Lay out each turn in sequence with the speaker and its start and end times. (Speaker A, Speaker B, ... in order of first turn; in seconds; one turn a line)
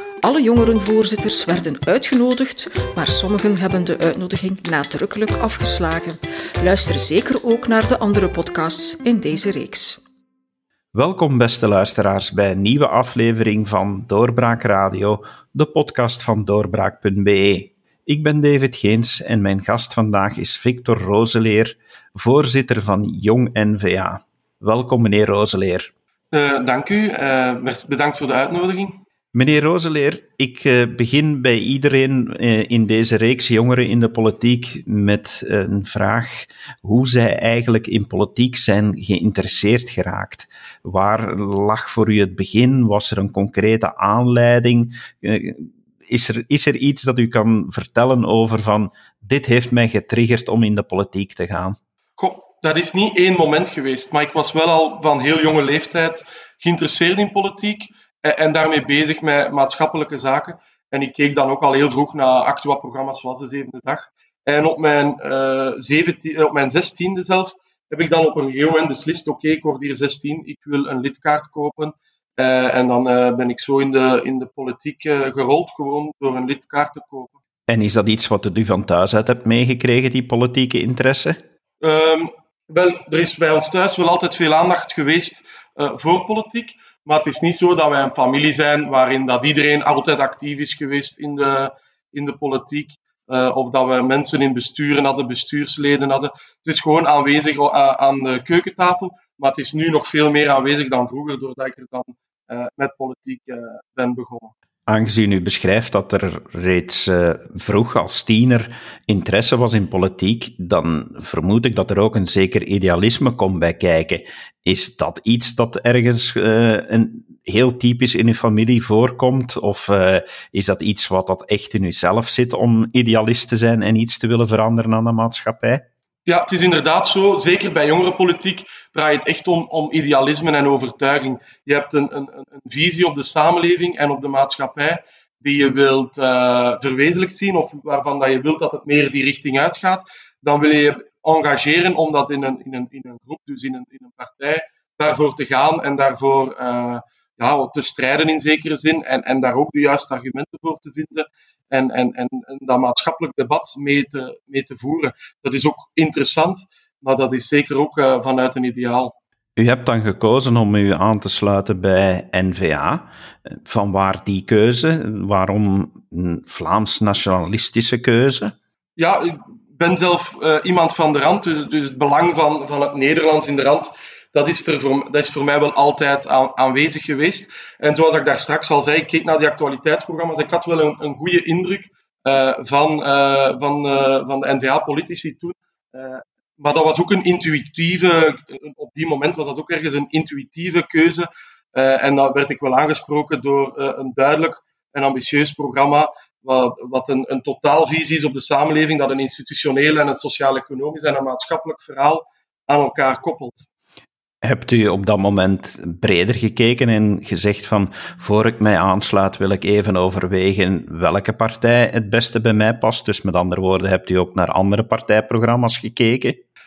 Speaker A: 0.2-10.0
Speaker B: 10.9-25.9
Speaker C: 26.3-29.0
Speaker B: 29.3-51.8
Speaker C: 52.2-77.3
Speaker B: 77.7-81.4
Speaker C: 81.8-104.5
Speaker B: 104.9-125.8
Speaker C: 126.2-159.1
Speaker B: 159.6-168.5
Speaker C: 169.0-203.7
Speaker B: 204.4-216.4